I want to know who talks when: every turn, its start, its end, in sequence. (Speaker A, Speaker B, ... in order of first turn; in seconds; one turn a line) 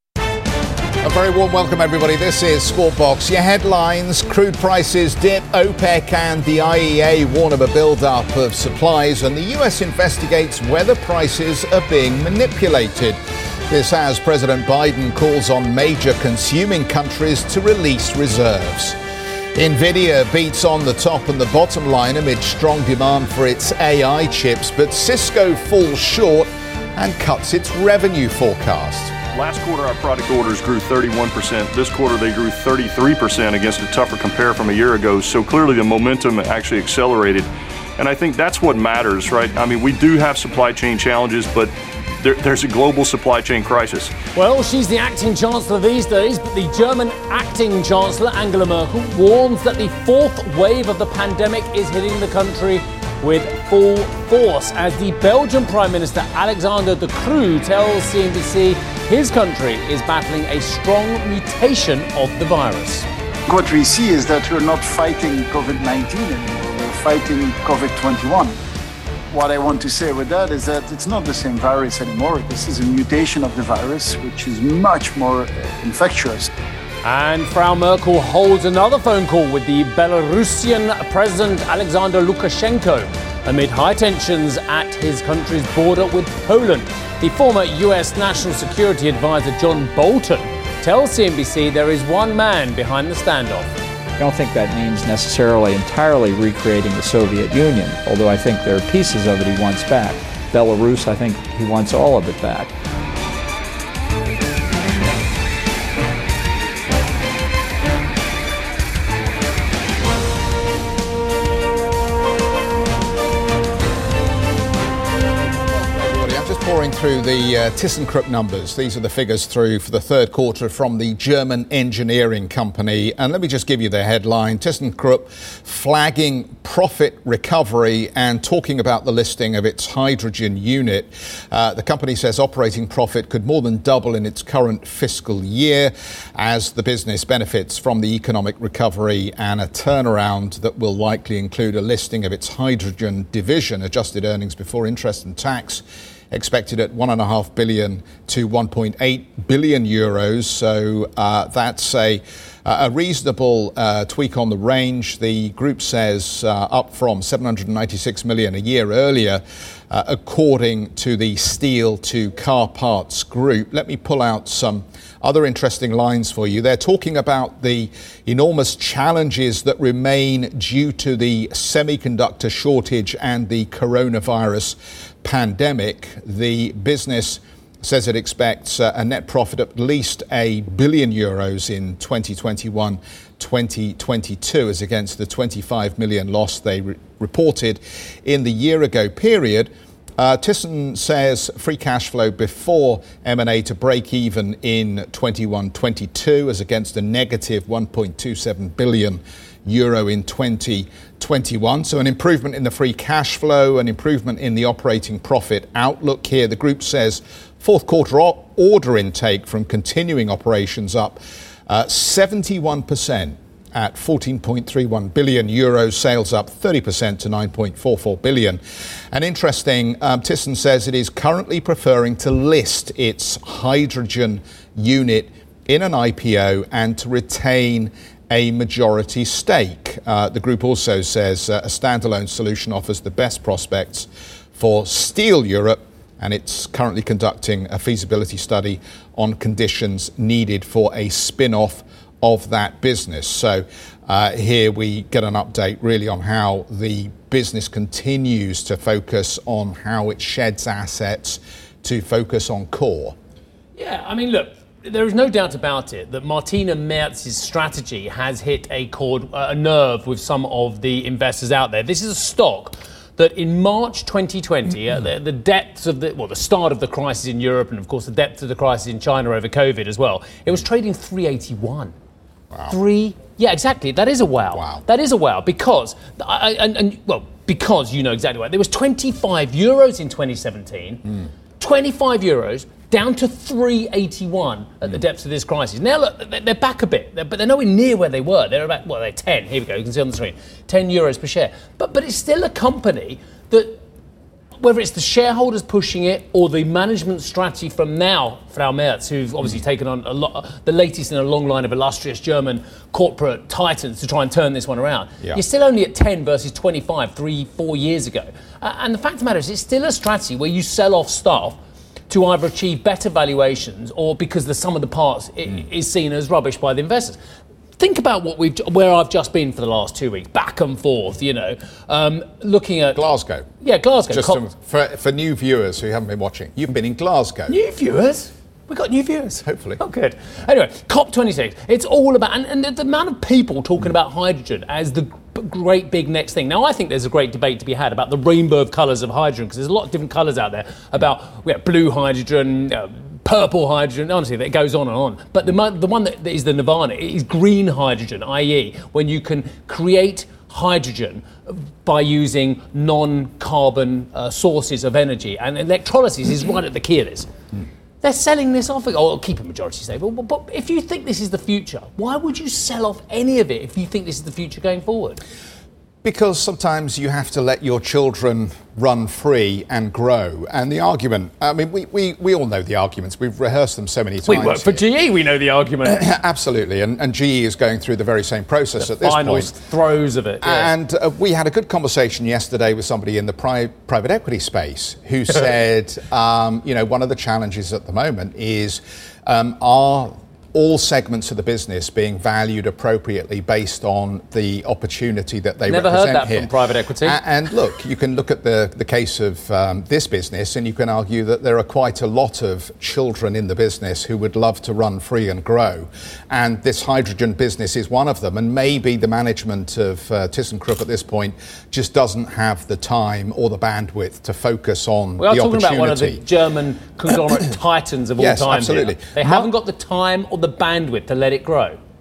Speaker A: 1.0-13.2
Speaker A: 13.7-19.0
Speaker A: 19.5-29.1
Speaker B: 29.3-44.1
Speaker C: 44.3-63.1
Speaker D: 63.5-68.6
Speaker D: 69.3-76.5
Speaker C: 77.0-93.8
Speaker E: 94.2-102.7
Speaker A: 115.4-218.6
Speaker A: 219.1-253.2
Speaker C: 253.8-271.9
Speaker C: 272.7-293.8
Speaker A: 274.5-274.8
Speaker C: 294.6-311.6
Speaker C: 312.1-317.2
Speaker C: 317.8-323.0
Speaker A: 322.9-323.5
Speaker C: 323.6-324.4
Speaker A: 324.1-327.5
Speaker C: 327.5-357.3
Speaker A: 329.4-329.8
Speaker C: 358.0-365.2
Speaker A: 366.0-374.8
Speaker C: 374.2-376.0
Speaker A: 375.8-379.5
Speaker C: 378.8-380.7
Speaker A: 380.4-396.5
Speaker C: 395.7-397.2
Speaker A: 397.0-416.2
Speaker C: 415.2-421.8
Speaker A: 418.2-419.5